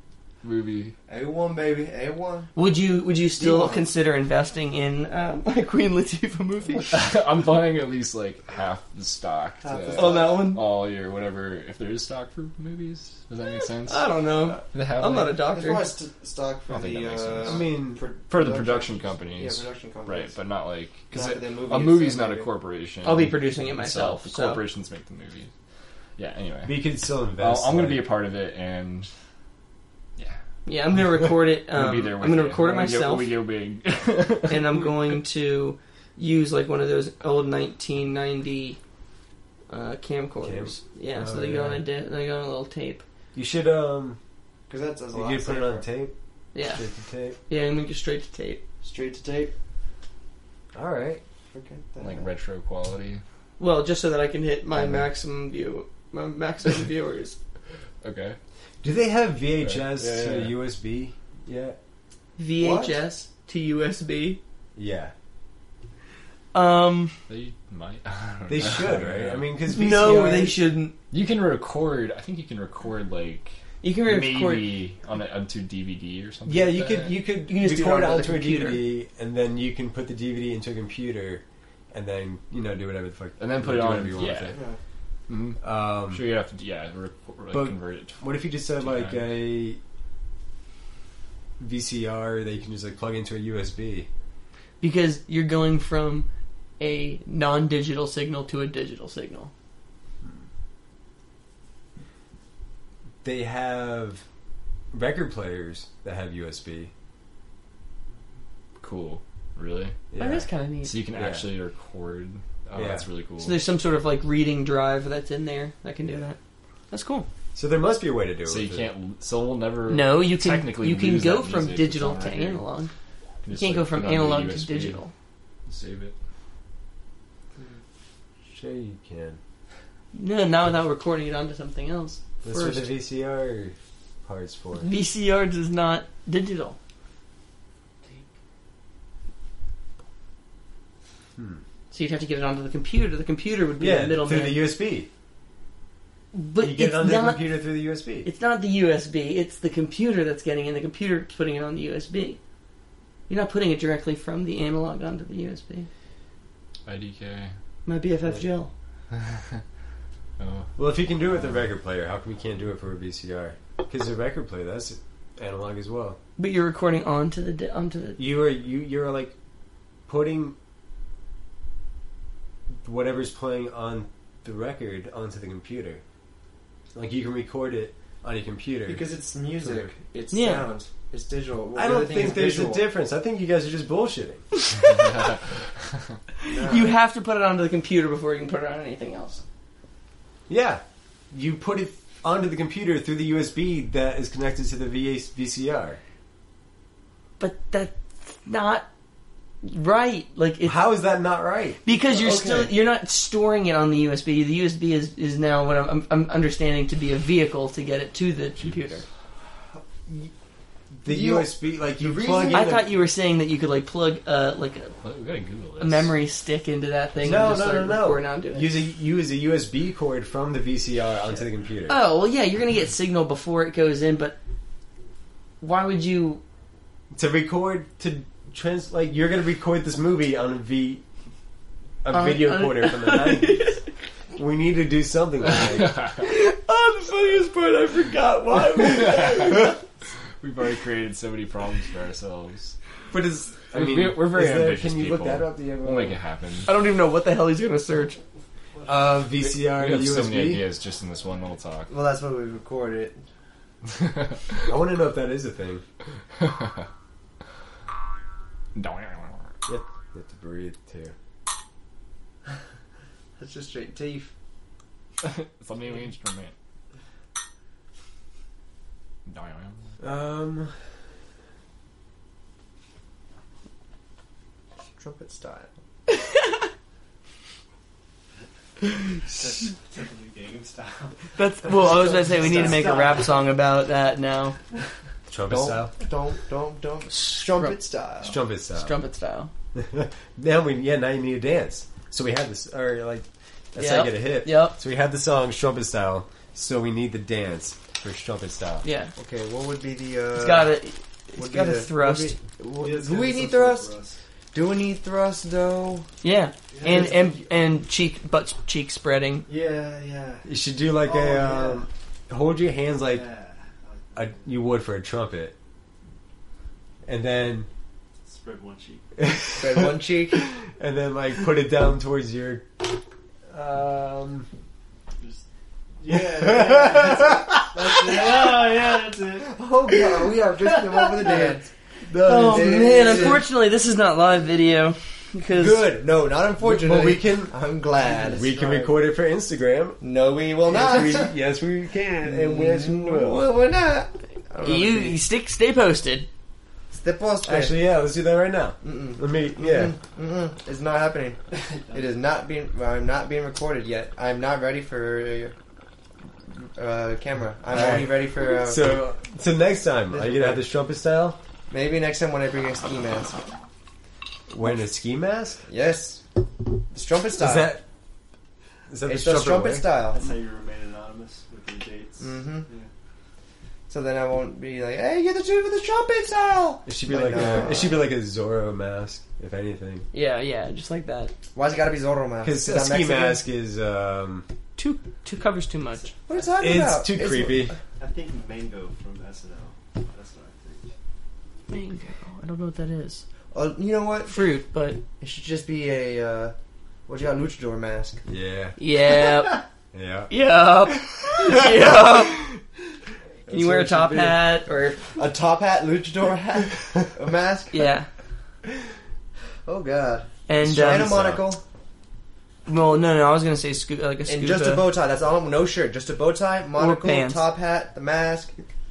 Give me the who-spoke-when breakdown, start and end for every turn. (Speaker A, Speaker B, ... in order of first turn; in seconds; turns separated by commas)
Speaker A: 0.4-0.9, Speaker B: 1.1-2.5, Speaker C: 2.5-6.9, Speaker B: 3.4-3.9, Speaker A: 6.9-15.4, Speaker B: 9.6-10.5, Speaker C: 9.9-10.6, Speaker C: 13.9-15.9, Speaker B: 15.5-20.3, Speaker A: 16.7-17.7, Speaker D: 17.4-18.0, Speaker A: 18.3-25.5, Speaker B: 21.1-22.5, Speaker C: 23.0-24.6, Speaker A: 26.2-29.1, Speaker D: 26.6-28.1, Speaker C: 30.6-33.3, Speaker A: 31.7-35.1, Speaker C: 34.5-38.8, Speaker C: 39.7-43.0, Speaker D: 40.4-41.9, Speaker D: 43.3-44.2, Speaker B: 44.7-45.9, Speaker D: 45.1-47.4, Speaker C: 46.5-46.8, Speaker C: 47.4-48.6, Speaker B: 48.8-49.5, Speaker D: 50.7-51.2, Speaker B: 51.5-52.3, Speaker A: 52.0-53.2, Speaker C: 53.6-57.4, Speaker D: 54.7-55.1, Speaker A: 58.0-58.4, Speaker D: 58.8-61.8, Speaker A: 59.6-60.6, Speaker C: 62.4-64.4, Speaker B: 62.6-63.0, Speaker D: 64.8-65.1, Speaker C: 66.5-67.2, Speaker A: 67.3-69.5, Speaker D: 68.5-70.6, Speaker C: 69.7-70.9, Speaker A: 71.1-77.2, Speaker C: 73.8-74.8, Speaker D: 76.5-84.6, Speaker C: 77.4-78.9, Speaker A: 83.4-84.6, Speaker B: 84.5-84.8, Speaker A: 85.3-89.3, Speaker D: 85.6-86.2, Speaker D: 87.5-89.8, Speaker D: 91.6-94.1, Speaker C: 94.8-99.5, Speaker D: 103.2-104.2, Speaker D: 104.9-106.9, Speaker A: 108.8-110.0, Speaker D: 110.1-110.5, Speaker C: 110.2-110.9, Speaker A: 110.8-113.6, Speaker D: 111.1-111.5, Speaker D: 112.7-113.0, Speaker C: 113.4-116.4, Speaker C: 116.9-117.3, Speaker D: 117.5-118.9, Speaker A: 118.5-122.7, Speaker C: 119.9-122.9, Speaker A: 123.4-125.0, Speaker C: 123.5-125.1, Speaker A: 125.7-126.1, Speaker D: 128.5-129.4, Speaker C: 130.1-132.9, Speaker D: 132.4-134.9, Speaker C: 134.8-136.8, Speaker D: 141.4-141.6, Speaker C: 141.9-144.7, Speaker D: 143.8-145.1, Speaker C: 146.3-147.6, Speaker D: 146.6-148.3, Speaker C: 148.2-152.4, Speaker C: 153.3-155.9, Speaker A: 156.9-157.5, Speaker C: 157.9-158.7, Speaker A: 159.1-159.6, Speaker A: 160.4-160.7, Speaker D: 160.8-166.2, Speaker C: 166.4-168.2, Speaker D: 168.2-169.3, Speaker D: 170.1-170.6, Speaker D: 172.8-176.0, Speaker D: 176.9-179.1, Speaker B: 178.9-182.8, Speaker C: 180.3-180.7, Speaker D: 181.7-184.4, Speaker C: 184.8-185.1, Speaker A: 184.9-185.4, Speaker C: 186.4-189.4, Speaker B: 186.5-186.9, Speaker D: 190.5-196.0, Speaker C: 197.4-198.9, Speaker C: 199.6-200.8, Speaker D: 200.6-201.8, Speaker C: 201.8-209.1, Speaker B: 202.1-202.7, Speaker A: 208.6-208.9, Speaker D: 211.0-212.9, Speaker B: 211.1-212.8, Speaker C: 212.5-214.9, Speaker A: 215.0-216.1, Speaker C: 215.8-218.7, Speaker D: 217.2-222.0, Speaker C: 221.9-224.4, Speaker C: 225.6-226.4, Speaker D: 227.1-231.0, Speaker D: 232.0-233.7, Speaker C: 232.1-233.8, Speaker D: 234.4-236.0, Speaker A: 235.6-236.2, Speaker C: 236.2-239.8, Speaker A: 238.8-239.8, Speaker A: 240.4-242.8, Speaker D: 243.1-246.2, Speaker A: 243.7-246.7, Speaker C: 246.7-248.2, Speaker D: 248.9-250.6, Speaker A: 249.4-251.9, Speaker B: 251.9-253.2, Speaker A: 253.9-254.7, Speaker D: 254.7-255.8, Speaker A: 256.4-256.9, Speaker A: 258.7-259.5, Speaker D: 259.6-261.1, Speaker B: 263.4-264.3, Speaker A: 265.2-266.5, Speaker A: 269.2-270.0, Speaker D: 270.0-270.7, Speaker B: 274.9-275.7, Speaker E: 279.2-283.4, Speaker C: 281.4-284.6, Speaker B: 282.4-282.8, Speaker D: 285.3-285.9, Speaker B: 285.5-288.4, Speaker C: 287.1-287.8, Speaker D: 288.2-289.0, Speaker C: 288.7-289.5, Speaker D: 289.7-298.8, Speaker C: 293.7-294.8, Speaker C: 298.8-299.1, Speaker B: 299.1-300.8, Speaker C: 300.4-302.4, Speaker B: 301.4-303.9, Speaker E: 302.8-304.2, Speaker B: 304.5-306.1, Speaker C: 306.2-309.5, Speaker E: 306.7-307.1, Speaker B: 306.8-307.4, Speaker E: 309.5-311.9, Speaker D: 310.4-313.3, Speaker E: 313.1-314.6, Speaker D: 314.1-315.6, Speaker D: 317.1-317.7, Speaker E: 318.2-319.2, Speaker D: 319.2-322.9, Speaker B: 319.6-320.4, Speaker D: 323.5-324.5, Speaker E: 326.0-330.0, Speaker D: 326.1-328.8, Speaker B: 329.4-331.7, Speaker E: 330.7-331.6, Speaker D: 332.1-333.4, Speaker C: 332.2-335.8, Speaker B: 332.4-333.4, Speaker B: 335.6-338.9, Speaker D: 336.6-337.6, Speaker D: 338.2-340.0, Speaker B: 340.0-341.3, Speaker D: 340.7-343.5, Speaker B: 342.2-345.2, Speaker C: 344.6-346.3, Speaker B: 346.9-347.8, Speaker D: 347.4-349.9, Speaker B: 348.8-355.6, Speaker E: 351.5-352.1, Speaker B: 356.7-358.9, Speaker D: 357.7-361.4, Speaker B: 360.1-360.6, Speaker B: 361.7-363.4, Speaker D: 364.5-365.6, Speaker B: 365.7-366.3, Speaker B: 366.9-367.7, Speaker D: 367.4-367.8, Speaker D: 368.9-369.9, Speaker B: 369.1-370.2, Speaker E: 370.1-372.9, Speaker B: 372.2-372.7, Speaker B: 373.9-378.0, Speaker D: 376.9-380.1, Speaker C: 380.1-381.3, Speaker B: 381.6-383.4, Speaker D: 382.4-384.5, Speaker C: 384.8-386.1, Speaker B: 386.3-387.8, Speaker D: 386.6-387.7, Speaker E: 388.0-390.9, Speaker C: 391.7-393.2, Speaker B: 393.5-394.4, Speaker C: 394.2-395.0, Speaker B: 395.2-396.6, Speaker B: 397.1-398.2, Speaker D: 398.2-399.2, Speaker C: 398.8-399.6, Speaker D: 399.9-400.3, Speaker C: 400.3-402.5, Speaker D: 403.5-404.4, Speaker C: 403.5-405.1, Speaker B: 405.1-407.9, Speaker C: 407.7-408.1, Speaker B: 409.6-411.6, Speaker C: 410.5-411.2, Speaker D: 410.6-411.5, Speaker C: 412.6-414.9, Speaker B: 414.3-418.6, Speaker C: 416.8-417.4